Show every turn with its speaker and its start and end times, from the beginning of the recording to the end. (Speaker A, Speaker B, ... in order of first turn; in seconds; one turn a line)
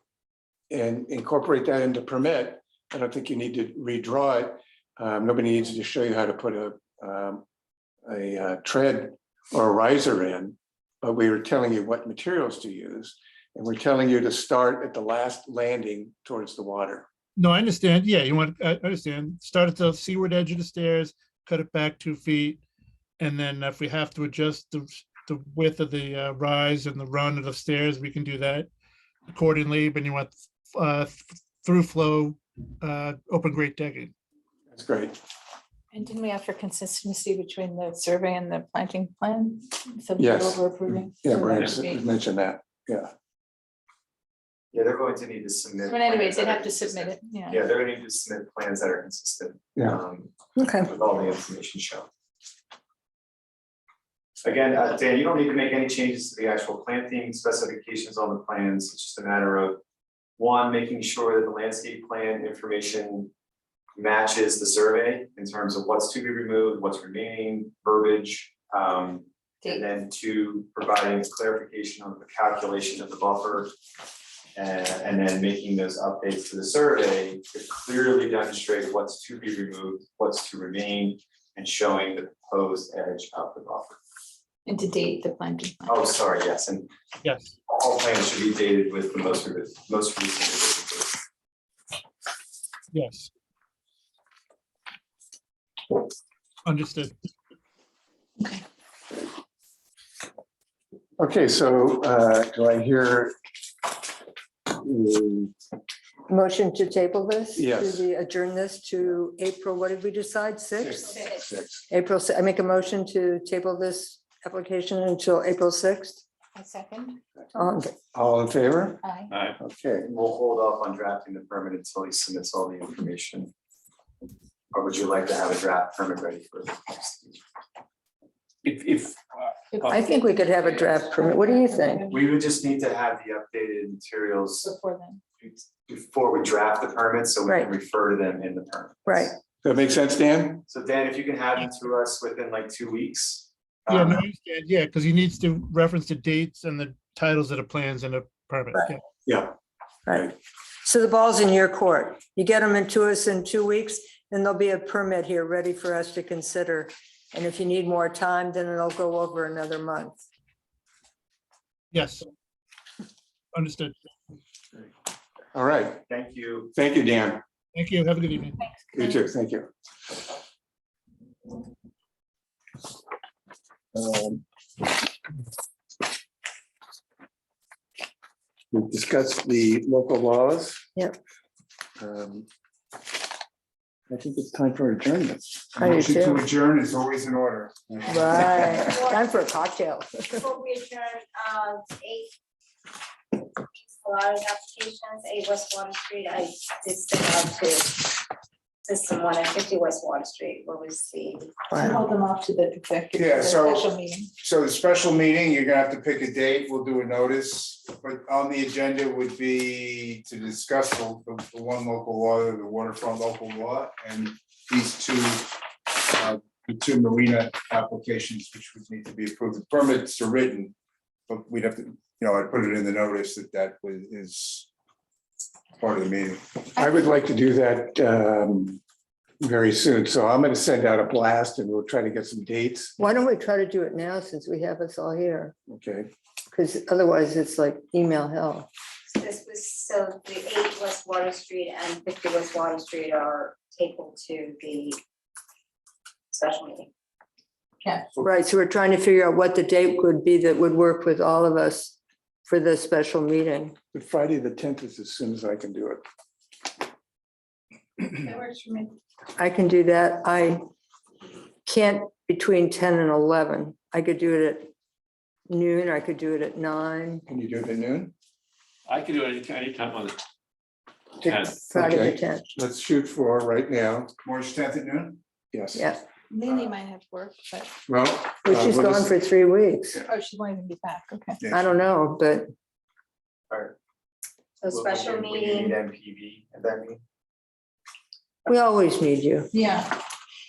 Speaker A: 0.7-7.5
Speaker A: 8.1-17.1
Speaker B: 17.4-22.6
Speaker B: 23.2-28.7
Speaker B: 29.3-34.1
Speaker A: 34.7-35.2
Speaker C: 35.9-42.0
Speaker A: 40.2-43.1
Speaker D: 44.7-52.1
Speaker C: 45.8-47.6
Speaker E: 50.5-50.9
Speaker D: 54.4-59.8
Speaker D: 60.4-63.3
Speaker D: 64.0-73.7
Speaker D: 74.5-84.0
Speaker C: 84.7-86.0
Speaker D: 85.8-86.9
Speaker B: 87.2-87.5
Speaker D: 87.7-91.2
Speaker B: 92.9-93.3
Speaker B: 96.7-97.1
Speaker A: 101.2-103.3
Speaker A: 104.7-105.5
Speaker E: 106.3-111.0
Speaker A: 107.5-108.0
Speaker A: 110.8-111.8
Speaker E: 111.9-116.2
Speaker C: 116.5-117.2
Speaker E: 117.5-117.9
Speaker A: 118.1-119.0
Speaker C: 119.0-119.5
Speaker F: 119.3-119.5
Speaker A: 119.6-120.0
Speaker D: 120.0-123.5
Speaker D: 124.7-127.4
Speaker F: 128.6-129.8
Speaker C: 129.7-132.2
Speaker E: 129.9-132.1
Speaker D: 132.1-134.7
Speaker C: 134.6-135.2
Speaker D: 135.4-139.3
Speaker E: 139.1-139.4
Speaker A: 139.6-140.6
Speaker D: 140.7-144.2
Speaker B: 143.9-149.0
Speaker A: 149.3-149.5
Speaker E: 150.1-160.2
Speaker B: 161.9-162.3
Speaker B: 163.5-163.9
Speaker A: 165.5-166.0
Speaker D: 166.1-166.7
Speaker A: 166.7-167.4
Speaker B: 167.8-168.6
Speaker A: 168.9-169.7
Speaker A: 173.9-174.4
Speaker A: 178.7-180.8
Speaker A: 182.0-182.5
Speaker A: 184.1-185.7
Speaker G: 185.8-188.8
Speaker E: 185.8-186.4
Speaker E: 188.1-190.4
Speaker H: 188.8-189.3
Speaker H: 190.3-192.3
Speaker H: 193.3-198.2
Speaker H: 198.8-201.6
Speaker E: 201.7-202.0
Speaker C: 201.8-204.3
Speaker G: 203.1-220.7
Speaker G: 221.3-224.7
Speaker G: 225.8-226.4
Speaker A: 226.8-228.8
Speaker A: 229.4-233.0
Speaker E: 233.0-235.6
Speaker A: 235.7-236.1
Speaker E: 236.5-238.7
Speaker H: 239.1-245.0
Speaker H: 246.3-246.9
Speaker C: 247.8-248.1
Speaker E: 248.2-253.8
Speaker A: 253.9-256.0
Speaker C: 258.1-258.9
Speaker E: 259.4-260.6
Speaker E: 261.6-264.7
Speaker E: 265.5-267.2
Speaker A: 267.3-268.1
Speaker F: 268.9-270.2
Speaker F: 271.2-271.6
Speaker E: 271.3-272.4
Speaker A: 271.7-274.1
Speaker G: 274.2-275.2
Speaker A: 275.5-275.8
Speaker E: 275.8-276.0
Speaker C: 276.3-277.7
Speaker A: 277.9-279.1
Speaker E: 278.4-280.0
Speaker C: 280.1-281.4
Speaker G: 281.4-281.7
Speaker E: 281.5-282.5
Speaker D: 283.5-283.8
Speaker H: 284.6-285.8
Speaker D: 284.7-287.0
Speaker E: 288.4-289.5
Speaker C: 289.5-290.0